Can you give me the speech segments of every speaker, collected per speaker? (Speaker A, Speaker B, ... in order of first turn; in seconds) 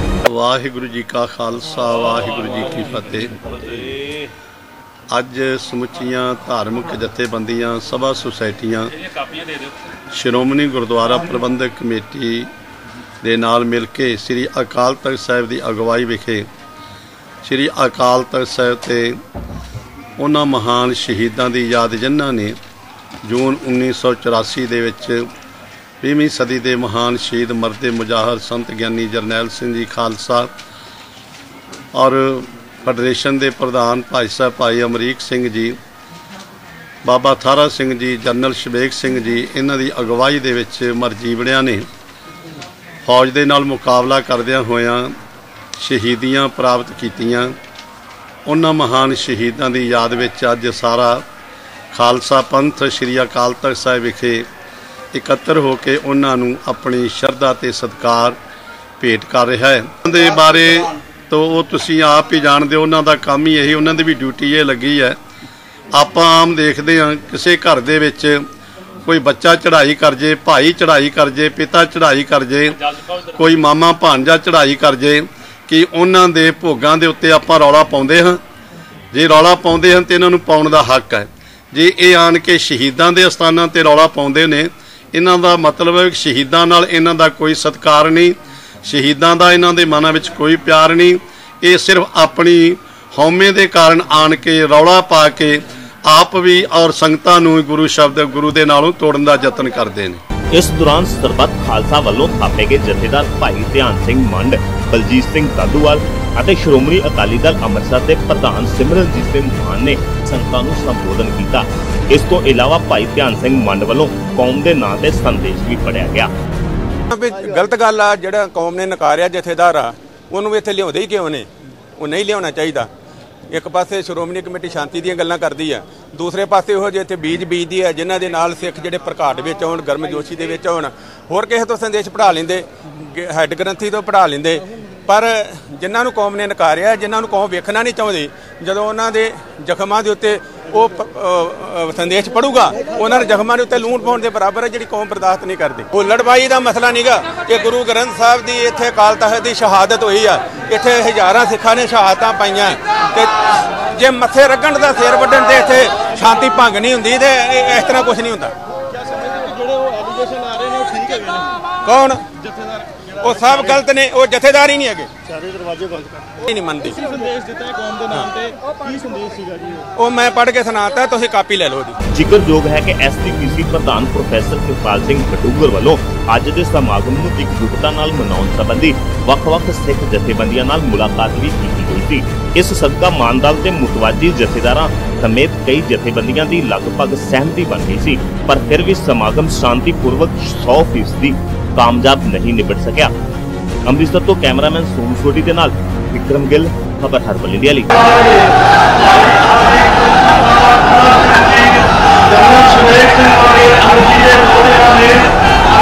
Speaker A: 0.2-3.9, 5.1-9.0, 10.1-12.5, 13.2-16.5, 17.4-19.2, 20.2-22.6, 23.2-25.3, 26.0-30.5, 31.9-35.8, 37.0-41.9, 43.0-45.1, 45.8-47.5, 48.5-51.2, 51.9-54.5, 55.1-58.4, 59.0-65.2, 65.9-68.5, 69.0-78.4, 79.1-100.2
Speaker B: 100.5-116.3, 172.1-193.1, 193.8-198.2
Speaker C: 117.1-122.9, 123.5-158.6, 159.2-162.3, 163.0-165.1, 166.4-169.3, 169.9-172.0, 202.4-202.9
Speaker D: 159.6-161.3, 167.4-167.9, 169.0-169.6